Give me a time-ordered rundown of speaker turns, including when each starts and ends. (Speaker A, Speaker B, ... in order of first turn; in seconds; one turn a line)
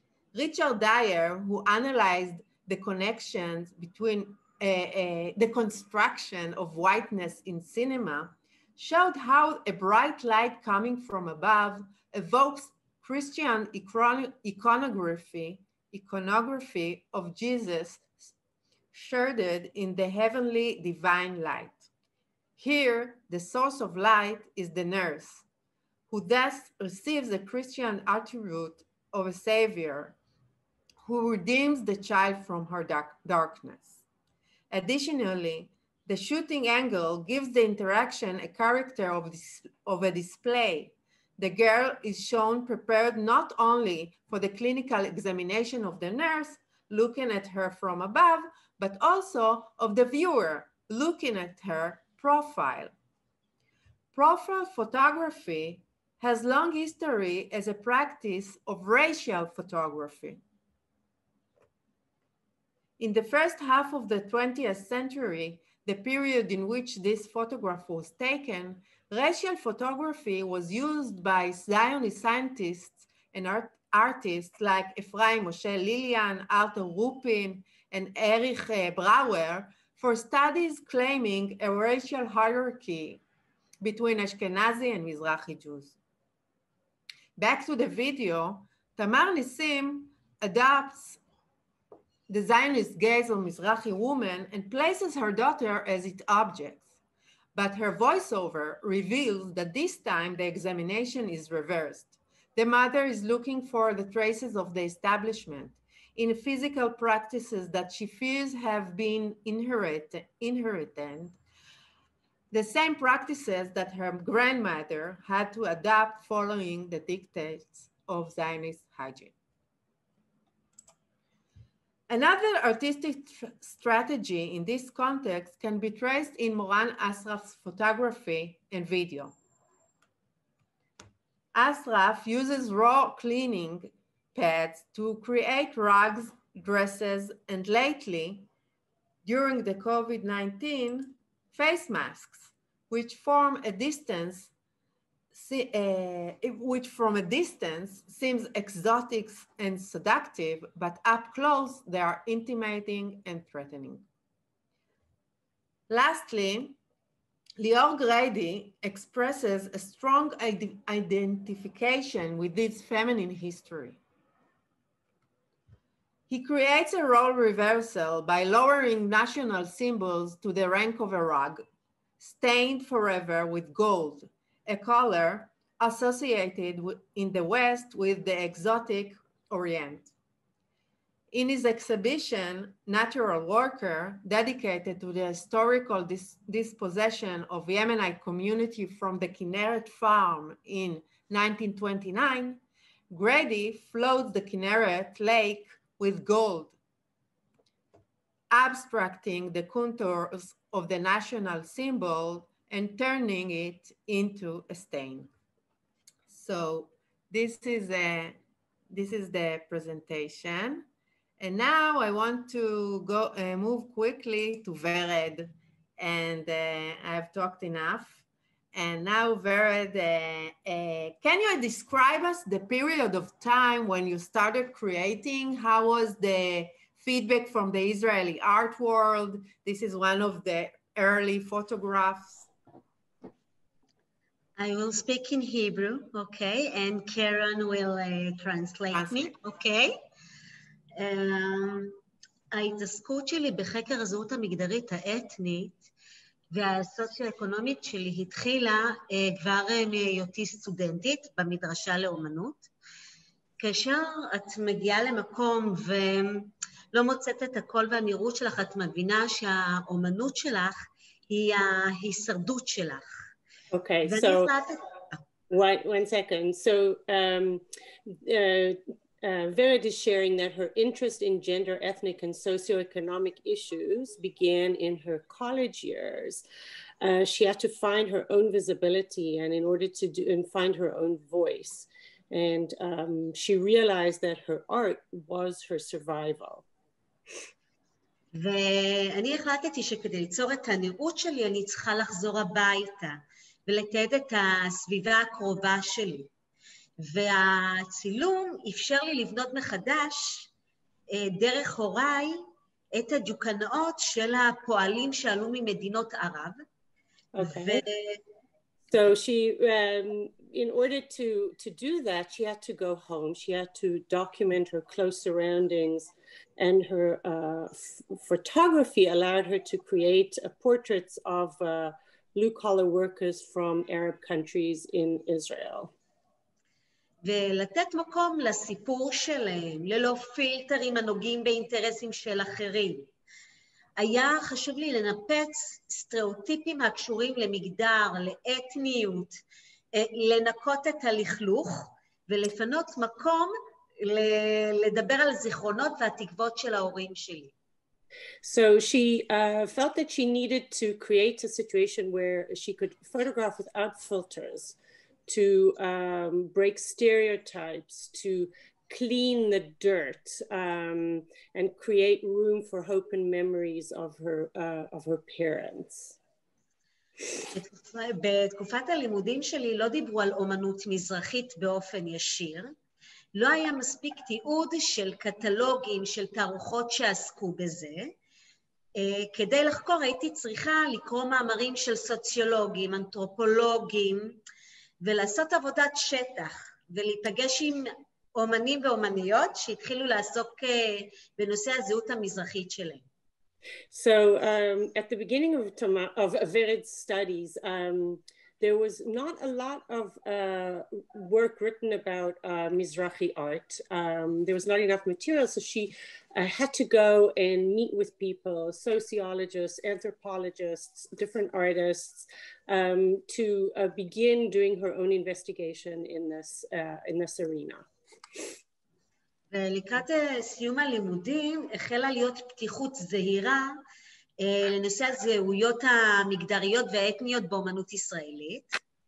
Speaker A: 0.3-18.3
Speaker A: 18.9-21.9
Speaker A: 22.6-25.4
Speaker A: 26.1-30.2
Speaker A: 31.0-34.0
Speaker A: 34.7-52.9
Speaker A: 54.1-60.4
Speaker A: 63.0-83.2
Speaker A: 83.8-86.0
Speaker A: 87.4-91.2
Speaker A: 92.3-96.9
Speaker A: 97.5-111.4
Speaker A: 112.5-119.3
Speaker A: 122.1-129.4
Speaker A: 131.5-138.5
Speaker A: 139.2-144.5
Speaker A: 145.3-154.1
Speaker A: 155.9-156.8
Speaker A: 157.6-164.0
Speaker A: 166.3-171.6
Speaker A: 172.2-180.1
Speaker A: 181.3-196.8
Speaker A: 198.5-205.3
Speaker A: 206.3-208.4
Speaker A: 208.9-210.9
Speaker A: 211.4-232.5
Speaker B: 234.6-240.0
Speaker A: 238.9-239.3
Speaker B: 241.0-242.0
Speaker B: 242.5-245.9
Speaker B: 246.5-252.7
Speaker B: 253.6-263.1
Speaker C: 263.7-264.5
Speaker B: 264.0-264.8
Speaker C: 265.5-276.4
Speaker C: 277.0-286.6
Speaker B: 288.3-296.3
Speaker B: 297.0-300.5
Speaker B: 301.1-302.4
Speaker B: 302.9-306.6
Speaker C: 307.3-307.8
Speaker B: 307.5-308.2
Speaker C: 308.9-325.9
Speaker B: 327.2-333.1
Speaker B: 334.0-339.4
Speaker B: 339.9-343.5
Speaker B: 344.0-347.5
Speaker C: 348.4-354.8
Speaker C: 355.3-366.2
Speaker B: 367.5-372.7
Speaker B: 373.4-378.1
Speaker B: 379.0-384.4
Speaker B: 385.0-393.1
Speaker C: 393.9-417.9
Speaker B: 419.5-423.7
Speaker B: 424.4-428.8